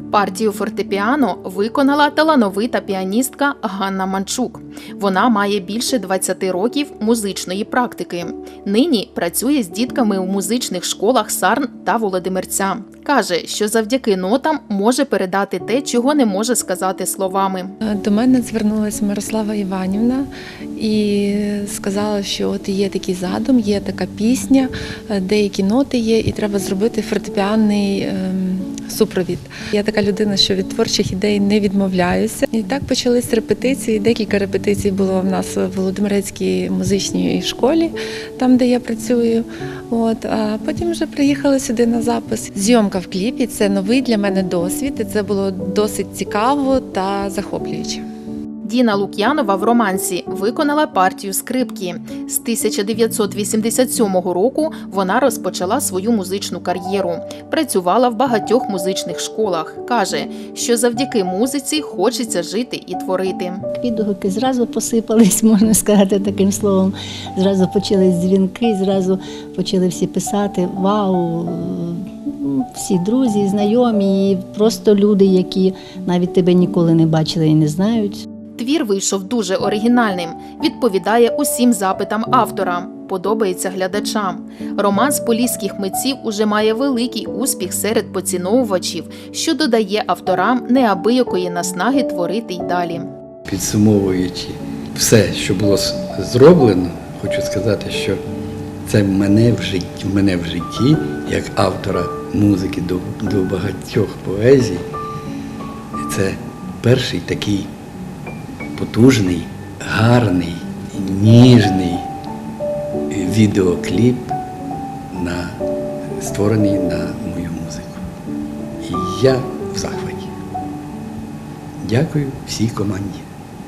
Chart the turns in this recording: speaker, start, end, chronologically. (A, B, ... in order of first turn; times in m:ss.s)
0:00.1-0:17.7 A
0:17.8-0:48.0 B
0:48.6-1:03.6 A
1:03.7-1:18.2 C
1:18.6-1:33.1 A
1:33.5-1:38.2 D
1:38.8-1:44.8 D
1:46.0-1:47.7 D
1:48.8-1:52.0 D
1:53.1-1:54.3 D
1:55.1-1:55.6 D
1:56.2-1:58.0 D
1:58.8-2:00.3 D
2:01.8-2:03.2 D